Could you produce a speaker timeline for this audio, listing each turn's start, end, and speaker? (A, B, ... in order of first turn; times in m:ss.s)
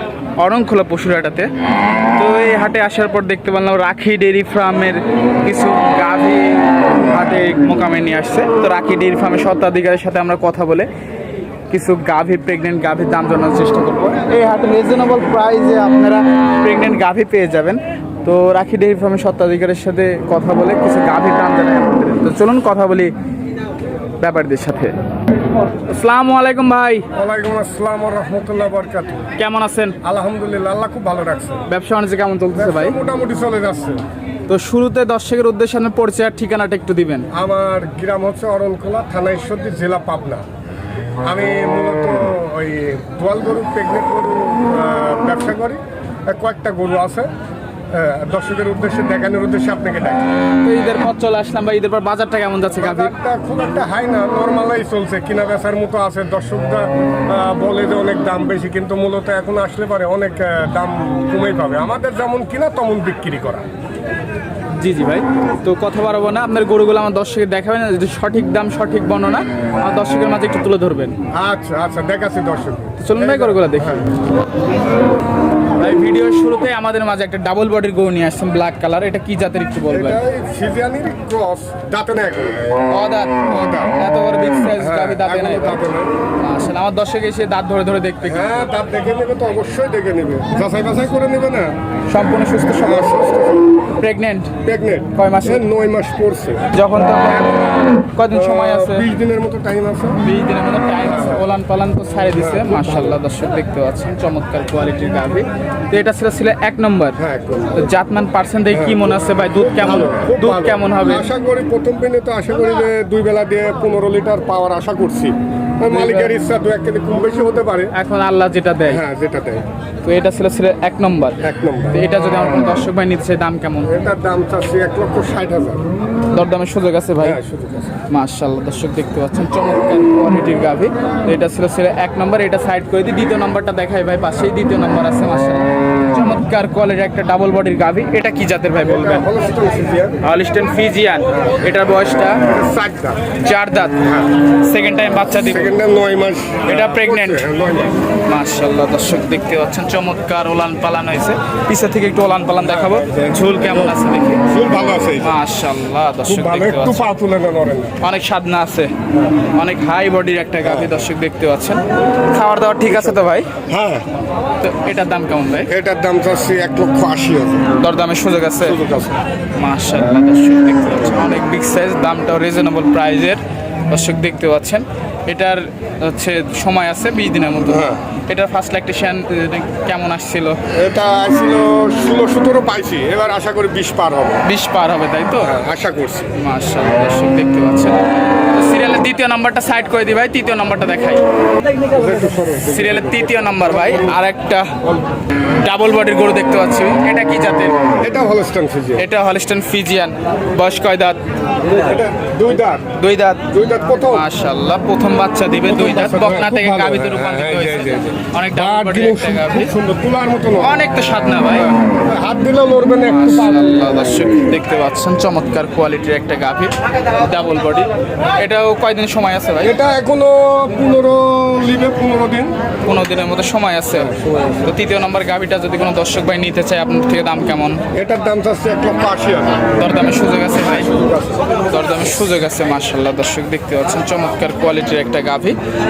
0:00.4-0:01.5 A
0:02.2-0:10.9 A
0:11.7-0:23.1 A
0:24.2-0:24.9 A
0:25.9-0:27.1 A
0:27.1-0:29.3 B
0:29.4-0:30.0 A
0:30.0-0:31.6 B
0:31.7-0:33.0 A
0:32.6-0:34.0 B
0:34.5-0:37.3 A
0:37.3-0:40.4 B
0:41.2-0:47.3 B
0:47.9-0:50.2 B
0:50.6-0:53.1 A
0:52.8-1:03.7 B
1:04.8-1:11.2 A
1:11.3-1:14.1 B
1:13.0-1:14.1 A
1:15.8-1:20.2 A
1:19.9-1:22.7 B
1:22.9-1:25.8 A
1:23.5-1:23.9 B
1:24.8-1:26.1 B
1:26.4-1:28.6 A
1:28.2-1:31.7 B
1:32.1-1:33.0 A
1:32.7-1:33.7 B
1:34.0-1:34.5 A
1:34.6-1:36.6 B
1:35.2-1:35.6 A
1:36.7-1:39.1 A
1:38.3-1:40.2 B
1:40.2-1:47.2 A
1:41.0-1:41.4 B
1:42.4-1:43.2 B
1:47.2-1:47.8 B
1:47.7-1:51.3 A
1:48.7-1:57.9 B
1:55.9-1:56.3 A
1:57.9-1:59.0 A
1:58.9-1:59.6 B
2:00.0-2:01.4 A
2:01.4-2:02.0 B
2:01.9-2:03.9 A
2:03.8-2:05.8 B
2:06.3-2:07.4 A
2:07.2-2:08.0 B
2:08.1-2:19.2 A
2:18.8-2:20.2 B
2:20.2-2:22.4 A
2:22.4-2:23.2 B
2:23.4-2:24.0 A
2:24.0-2:24.3 B
2:24.6-2:25.7 A
2:25.3-2:27.9 B
2:26.6-2:27.5 A
2:28.3-2:34.4 A
2:32.6-2:35.4 B
2:35.2-2:37.0 A
2:36.2-2:38.0 B
2:38.0-2:38.9 A
2:39.5-2:43.5 A
2:40.6-2:41.0 B
2:42.9-2:44.0 B
2:44.6-2:45.7 A
2:45.7-2:47.7 B
2:47.8-2:48.8 A
2:48.6-2:49.2 B
2:49.6-3:00.6 A
2:57.6-2:58.0 B
3:00.7-3:04.4 B
3:04.4-3:05.5 A
3:05.4-3:06.3 B
3:06.3-3:11.2 A
3:11.9-3:14.2 B
3:12.6-3:14.8 A
3:15.6-3:17.8 A
3:18.0-3:19.0 B
3:19.0-3:21.2 A
3:21.6-3:22.9 B
3:23.0-3:23.4 A
3:23.5-3:24.3 B
3:24.0-3:29.7 A
3:25.6-3:30.8 B
3:30.6-3:31.7 A
3:31.5-3:33.7 B
3:33.1-3:39.7 A
3:39.6-3:42.6 B
3:42.8-3:47.8 A
3:47.9-3:49.7 B
3:49.8-3:50.9 A
3:50.6-3:51.5 B
3:51.7-3:55.6 A